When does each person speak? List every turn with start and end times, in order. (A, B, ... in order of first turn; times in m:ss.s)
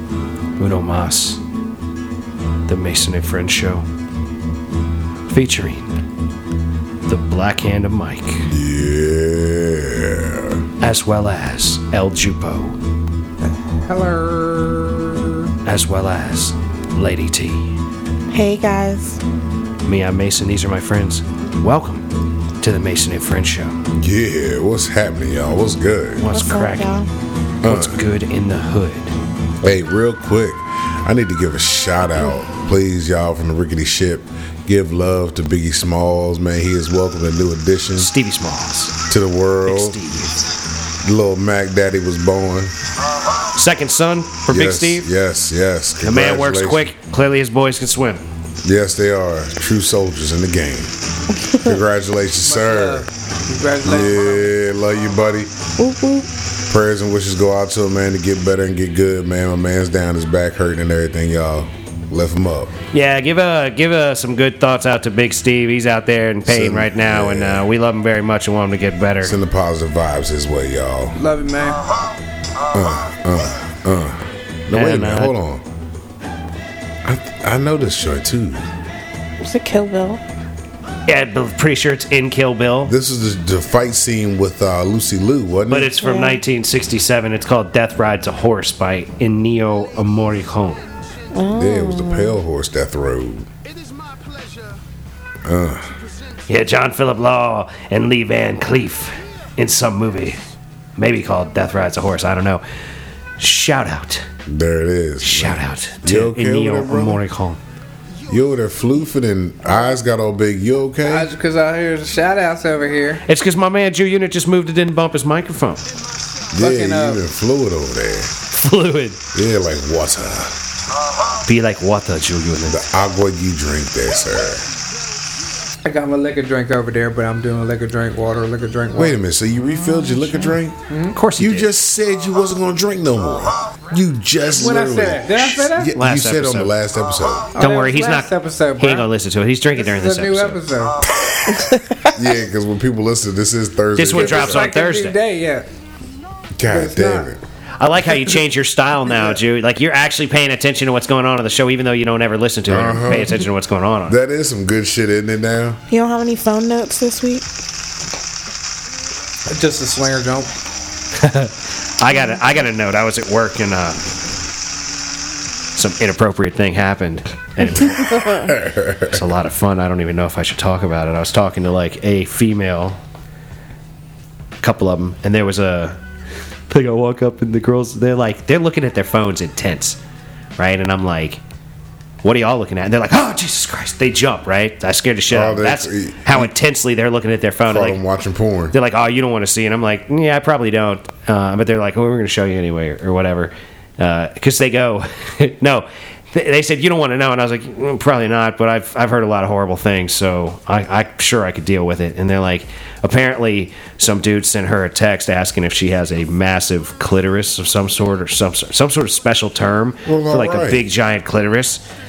0:00.6-0:01.4 A
0:02.7-0:03.8 A
0:05.3-0:06.0 A
0:07.1-0:08.5 A
0:08.5-0:10.6 B
0:10.8-0:12.8 A
0:13.4-0:15.5 C
0:15.6-0:17.7 A
0:18.3-0:19.2 D
0:19.8-0:22.1 A
0:22.6-0:23.8 A
0:24.0-0:26.3 B
0:26.2-0:26.9 A
0:26.3-0:27.1 D
0:27.6-0:28.0 B
0:27.6-0:29.1 A
0:29.6-0:38.1 B
0:38.0-0:39.0 A
0:39.1-0:40.0 B
0:39.7-0:40.5 A
0:41.0-0:42.7 B
0:43.5-0:45.1 A
0:44.5-0:46.9 B
0:46.0-0:48.2 A
0:48.6-0:50.9 B
0:51.5-0:53.1 B
0:52.4-0:54.5 C
0:53.8-0:55.5 B
0:55.8-0:56.3 D
0:56.7-1:02.7 B
1:02.9-1:09.3 A
1:06.5-1:07.7 B
1:09.2-1:11.2 B
1:11.2-1:11.8 C
1:12.7-1:15.6 B
1:14.7-1:15.3 A
1:17.0-1:18.6 B
1:19.4-1:20.2 D
1:21.1-1:22.9 A
1:22.8-1:26.0 B
1:25.7-1:30.8 A
1:26.0-1:26.4 D
1:31.3-1:32.4 D
1:31.5-1:33.5 B
1:35.4-1:35.9 B
1:36.5-1:40.4 A
1:41.0-1:42.6 A
1:43.4-1:44.2 A
1:44.5-1:47.2 B
1:45.2-1:47.6 A
1:48.3-1:51.3 B
1:51.1-1:53.2 C
1:53.3-1:55.8 A
1:56.5-1:58.3 B
1:56.6-1:57.2 C
1:58.5-1:59.2 A
1:59.3-2:00.6 B
2:01.5-2:02.8 A
2:02.7-2:04.7 B
2:05.8-2:09.2 C
2:08.9-2:10.8 B
2:09.9-2:10.5 D
2:10.9-2:11.2 C
2:11.1-2:11.7 A
2:11.4-2:17.5 B
2:14.6-2:16.0 C
2:15.9-2:16.7 A
2:17.6-2:19.1 C
2:17.6-2:20.6 A
2:19.8-2:21.0 C
2:21.5-2:22.1 D
2:22.1-2:24.7 B
2:24.0-2:25.2 A
2:24.1-2:25.7 C
2:26.6-2:27.4 B
2:26.7-2:27.3 C
2:27.8-2:34.2 A
2:32.7-2:33.4 B
2:34.1-2:35.8 B
2:35.9-2:37.4 D
2:39.5-2:40.5 C
2:41.2-2:44.0 A
2:45.8-2:48.1 A
2:47.7-2:49.2 B
2:49.1-2:53.0 A
2:54.6-2:56.0 A
2:56.7-3:00.0 A
3:00.6-3:01.4 A
3:02.2-3:08.0 A
3:05.3-3:06.5 B
3:07.7-3:08.8 B
3:08.7-3:31.8 A
3:30.0-3:30.8 B